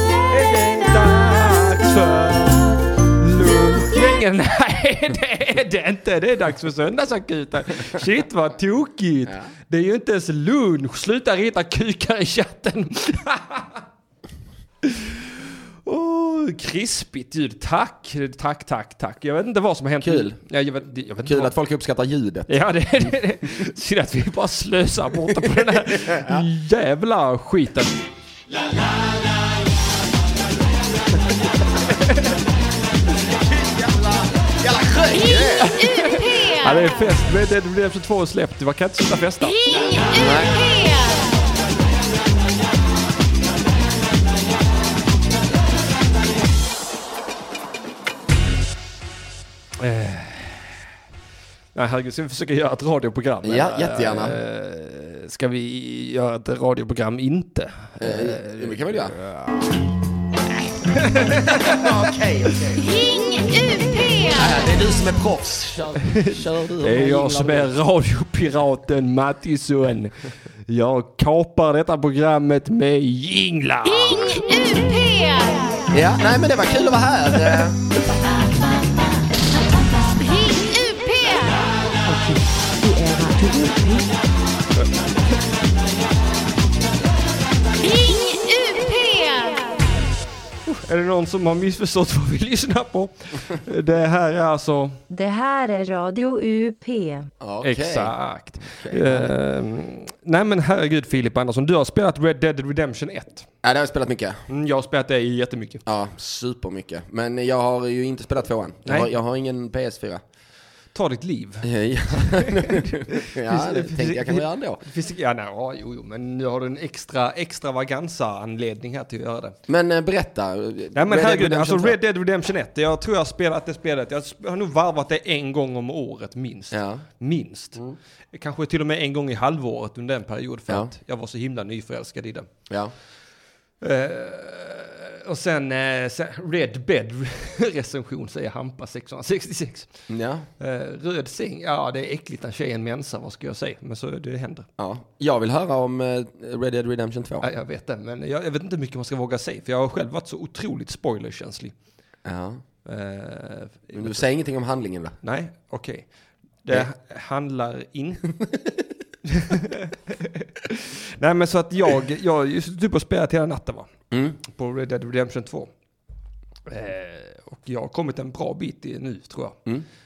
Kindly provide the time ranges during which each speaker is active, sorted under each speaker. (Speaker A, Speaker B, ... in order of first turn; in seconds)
Speaker A: 0.3-13.8, 14.8-15.3, 15.9-21.5, 22.5-27.9, 35.6-39.6, 49.8-50.8, 51.8-59.7, 61.0-61.8, 66.1-74.5, 90.7-95.0, 97.6-103.5, 104.5-105.8, 108.9-109.1, 110.9-119.6, 121.0-127.8, 128.3-132.5, 133.8-139.9, 140.6-144.7, 147.4-151.7, 152.9-154.2, 155.2-156.1, 156.6-158.3, 159.2-163.9, 164.4-165.7, 166.7-169.6
Speaker B: 20.0-20.4, 21.2-22.5, 25.4-26.5, 33.3-35.8, 40.1-40.6, 53.4-54.4, 58.0-59.2, 61.2-63.3, 64.3-67.7, 75.9-77.8, 97.4-99.3, 103.6-104.5, 105.9-110.2, 111.6-114.8, 119.7-122.0, 126.7-127.0, 140.1-140.5, 144.8-147.5, 152.2-152.6, 153.9-155.2, 158.4-158.7, 164.1-164.4
Speaker C: 36.1-36.5, 40.6-41.2, 63.8-64.3, 74.4-75.7, 80.2-81.5, 87.8-89.6
Speaker D: 82.1-84.1, 95.1-97.3